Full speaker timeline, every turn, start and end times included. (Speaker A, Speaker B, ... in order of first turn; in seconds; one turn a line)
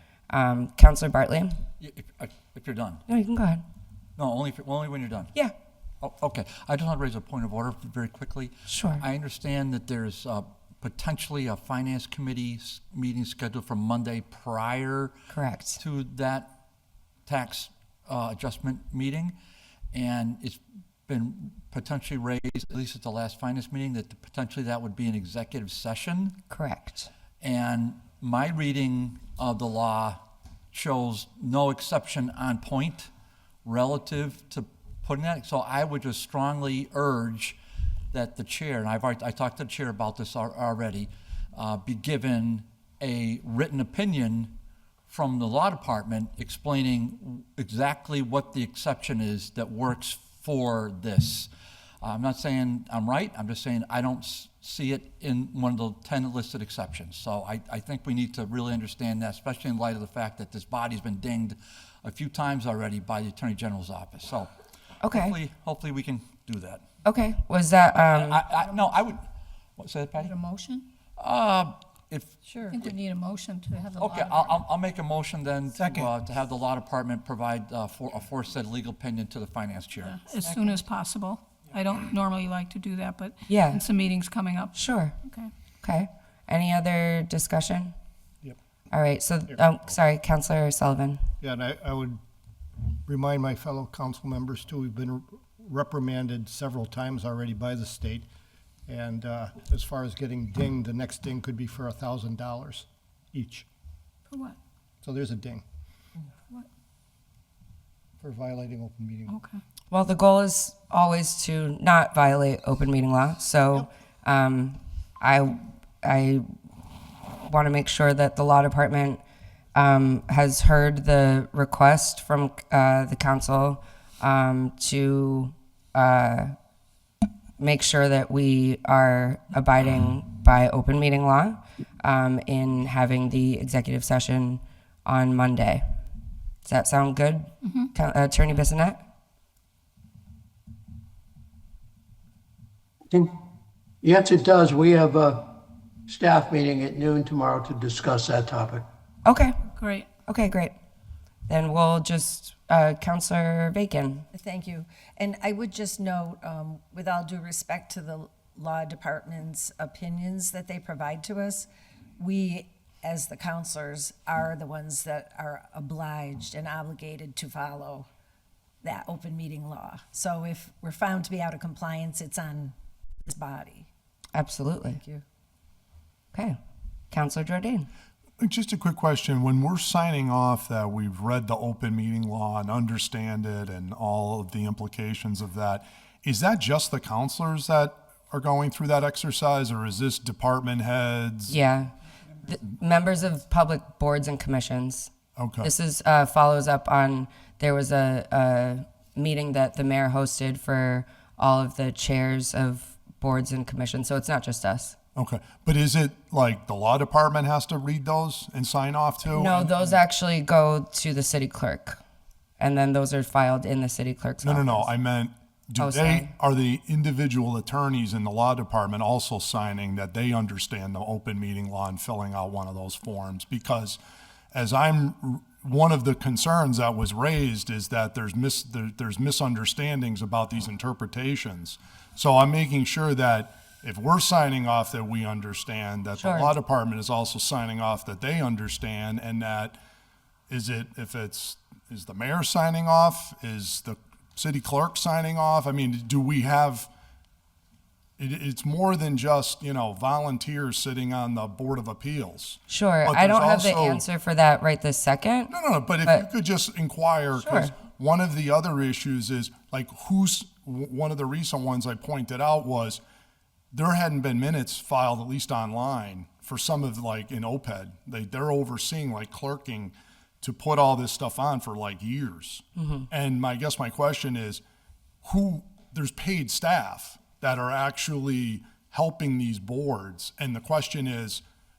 Speaker A: 0.3-1.5
Speaker B: 1.8-3.0
Speaker A: 3.1-3.6
Speaker B: 4.2-5.3
Speaker B: 6.0-15.1
Speaker A: 8.7-9.0
Speaker A: 15.3-15.8
Speaker B: 15.8-16.5
Speaker B: 17.3-19.4
Speaker B: 19.9-26.4
Speaker A: 26.5-27.1
Speaker B: 27.4-30.2
Speaker B: 30.7-33.1
Speaker B: 33.6-37.6
Speaker B: 38.1-44.5
Speaker B: 45.1-51.5
Speaker B: 52.0-64.5
Speaker A: 65.0-65.4
Speaker B: 65.0-66.8
Speaker A: 67.0-68.4
Speaker B: 67.9-69.2
Speaker B: 69.8-70.3
Speaker C: 70.2-70.8
Speaker B: 71.2-72.9
Speaker C: 72.6-74.6
Speaker B: 74.0-80.2
Speaker D: 75.8-76.1
Speaker E: 80.0-85.5
Speaker A: 83.5-83.8
Speaker A: 84.7-85.1
Speaker A: 85.8-87.9
Speaker A: 88.9-91.2
Speaker D: 91.4-92.2
Speaker D: 93.1-98.3
Speaker D: 98.9-103.7
Speaker E: 104.3-104.6
Speaker D: 105.0-105.7
Speaker D: 108.2-109.4
Speaker E: 109.3-109.6
Speaker A: 109.9-116.5
Speaker A: 117.5-119.2
Speaker A: 119.7-126.5
Speaker A: 127.6-135.8
Speaker A: 136.7-139.0
Speaker E: 137.6-137.9
Speaker F: 144.0-148.9
Speaker A: 149.3-149.6
Speaker E: 149.8-150.1
Speaker A: 150.3-150.7
Speaker A: 151.5-154.3
Speaker G: 154.3-161.7
Speaker G: 162.2-168.1
Speaker G: 168.8-172.7
Speaker G: 173.2-173.9
Speaker A: 174.3-175.0
Speaker G: 174.9-175.2
Speaker A: 177.1-177.9
Speaker H: 178.4-191.6
Speaker A: 191.5-191.9
Speaker A: 192.4-195.1
Speaker H: 195.4-195.7
Speaker A: 195.6-205.0
Speaker H: 205.2-210.0
Speaker A: 209.3-212.0
Speaker A: 212.6-214.9
Speaker H: 214.4-224.0
Speaker A: 215.8-216.3
Speaker H: 224.5-239.8
Speaker A: 236.2-236.5
Speaker H: 240.5-246.9
Speaker H: 248.2-254.0
Speaker A: 252.7-255.5
Speaker H: 255.5-263.0
Speaker A: 257.4-257.7
Speaker H: 263.7-274.6
Speaker A: 272.8-273.1
Speaker H: 275.2-281.4